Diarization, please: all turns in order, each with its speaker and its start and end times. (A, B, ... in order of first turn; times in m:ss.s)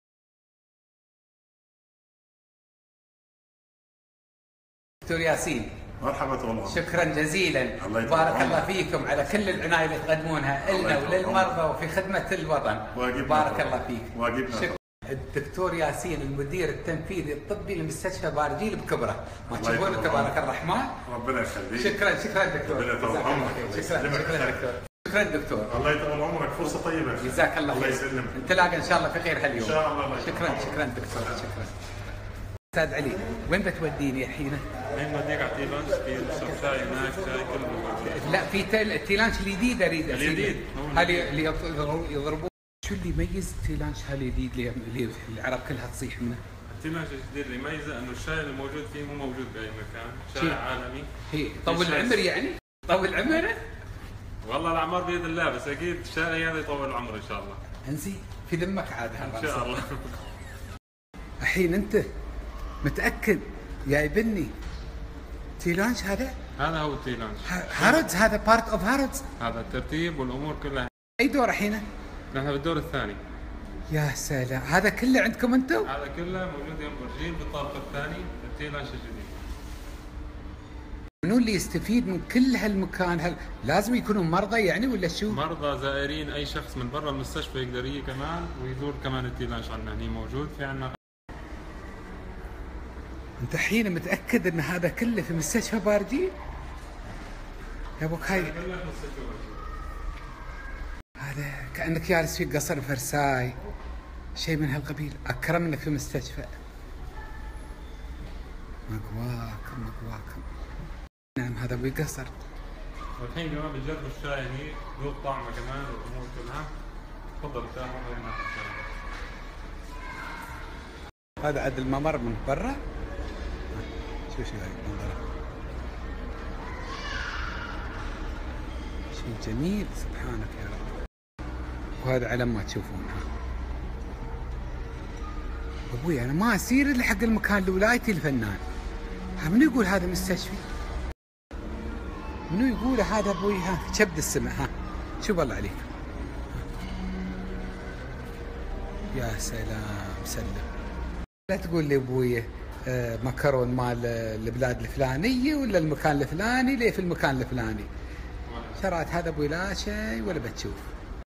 0:05.1-0:05.8 A
0:06.0-0:06.9 B
0:06.7-0:21.0 A
0:07.8-0:08.7 B
0:10.7-0:11.6 B
0:13.0-0:14.8 B
0:19.5-0:20.4 B
0:21.1-0:22.1 B
0:21.8-0:25.7 A
0:22.6-0:24.6 B
0:25.7-0:28.9 B
0:27.2-0:31.7 A
0:29.6-0:31.3 B
0:32.7-0:34.6 A
0:34.9-0:38.4 C
0:38.1-0:46.4 A
0:40.1-0:41.4 C
0:46.7-0:51.1 C
0:51.3-0:53.6 A
0:51.7-0:52.2 C
0:54.5-0:57.6 C
0:57.9-0:59.8 A
0:59.2-1:00.2 C
1:01.4-1:02.1 A
1:02.8-1:04.5 A
1:05.6-1:06.4 A
1:06.6-1:08.1 C
1:07.4-1:09.2 A
1:09.4-1:10.9 C
1:11.2-1:11.8 A
1:12.3-1:13.2 C
1:13.9-1:15.9 A
1:15.9-1:19.3 C
1:21.2-1:25.4 A
1:25.3-1:31.0 C
1:33.4-1:36.3 A
1:38.0-1:38.6 A
1:38.2-1:39.6 C
1:41.2-1:43.6 A
1:44.4-1:46.6 A
1:48.9-1:50.4 A
1:51.4-1:52.3 A
1:53.2-1:56.7 C
1:57.4-1:58.8 C
2:01.4-2:02.8 A
2:03.7-2:05.2 A
2:09.1-2:11.0 A
2:12.0-2:13.3 A
2:15.9-2:18.6 A
2:19.4-2:20.7 A
2:22.5-2:24.7 A
2:25.2-2:26.0 A
2:29.1-2:30.7 A
2:31.5-2:37.9 A
2:38.5-2:38.8 C
2:38.8-2:40.8 A